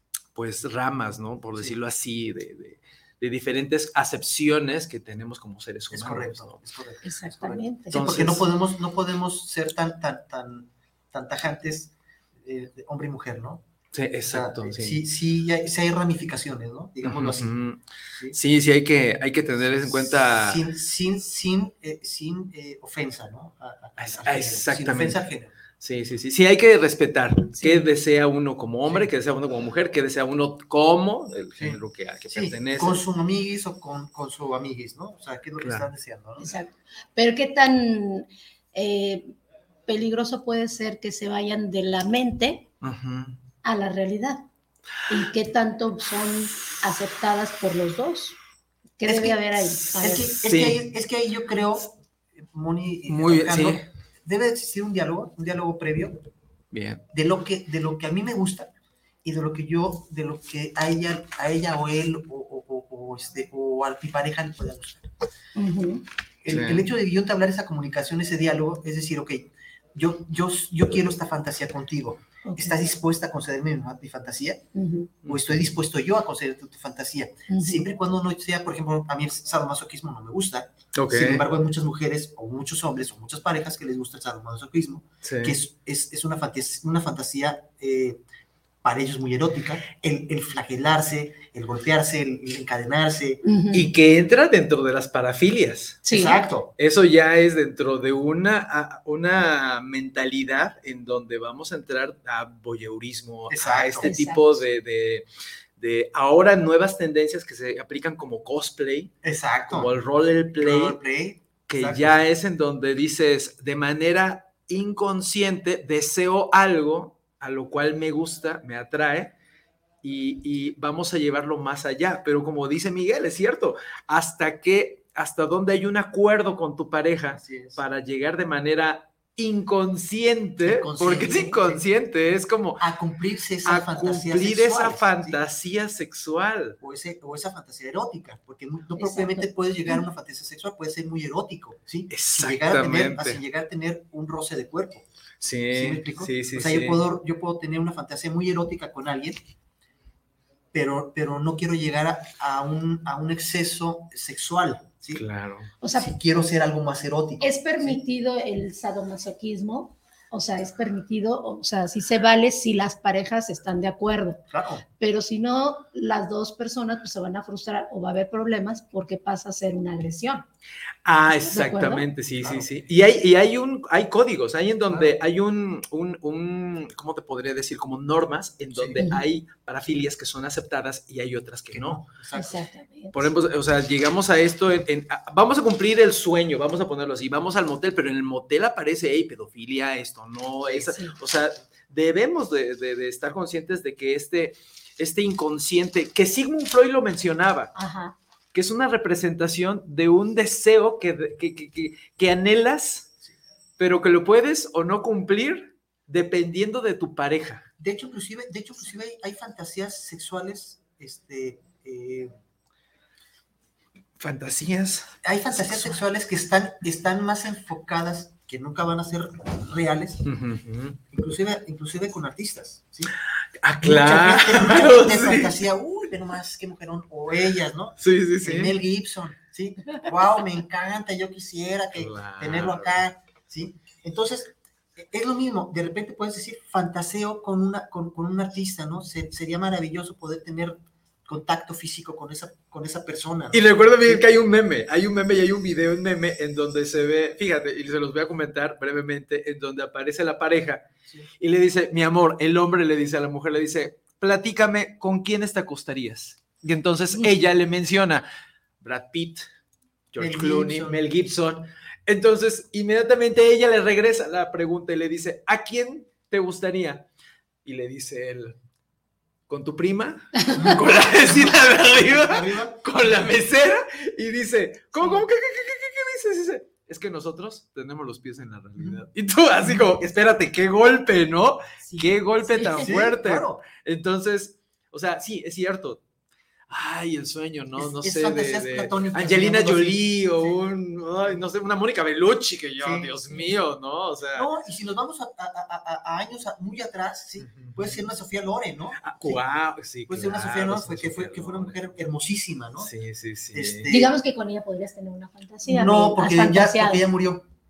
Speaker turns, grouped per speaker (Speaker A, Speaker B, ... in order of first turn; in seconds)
Speaker A: 0.3-6.6, 7.9-8.4, 13.9-15.0, 17.0-17.8, 18.3-20.6, 24.0-25.2, 25.8-33.0, 35.6-35.9, 42.8-43.4, 50.1-50.9, 53.1-53.8, 56.7-57.0, 66.5-66.9, 75.2-75.7, 81.0-81.5, 85.2-85.6, 93.7-96.0, 96.8-105.2, 105.8-109.1, 109.7-111.0, 111.7-119.3, 120.0-132.8, 133.6-136.8, 142.1-143.4, 145.4-147.0, 155.1-155.7, 171.0-182.0, 183.1-197.7, 198.5-203.1, 203.8-207.7, 214.2-215.9, 220.2-221.0, 223.6-225.6, 228.0-228.8, 231.9-233.0, 243.5-250.8, 251.4-258.2, 258.8-259.4, 260.1-267.1, 267.6-268.6, 269.5-286.0, 286.7-294.5, 297.4-298.1, 299.0-301.8, 302.8-303.9
Speaker B: 5.9-13.6, 14.3-17.6, 19.9-25.5, 32.3-36.5, 49.0-49.4, 50.0-56.2, 57.1-58.7, 59.2-65.1, 66.4-74.6, 75.2-88.2, 88.8-93.4, 96.1-96.7, 103.5-104.1, 109.2-109.9, 110.6-112.2, 127.3-127.8, 130.6-131.8, 132.8-135.4, 136.8-145.0, 145.7-149.4, 150.7-155.2, 155.9-158.0, 164.5-164.8, 172.4-172.7, 174.9-175.2, 178.7-179.1, 181.7-182.6, 207.8-212.3, 215.2-220.2, 221.1-223.1, 223.8-244.3, 260.1-261.1, 270.5-273.1, 278.8-279.0, 282.8-283.6, 287.8-290.6, 292.8-293.1, 294.3-299.4, 300.1-302.9, 303.5-304.1, 305.7-307.5
Speaker C: 7.0-7.9, 27.6-27.9, 36.4-39.4, 39.9-42.7, 43.6-44.4, 45.1-48.4, 49.0-50.3, 65.5-66.0, 72.4-72.8, 74.7-75.1, 77.5-77.8, 93.4-93.9, 96.0-96.4, 104.0-104.6, 139.0-140.0, 155.8-156.1, 157.4-164.4, 165.0-170.4, 171.3-172.0, 182.3-183.3, 190.7-191.1, 197.7-198.1, 281.8-282.9, 303.9-307.1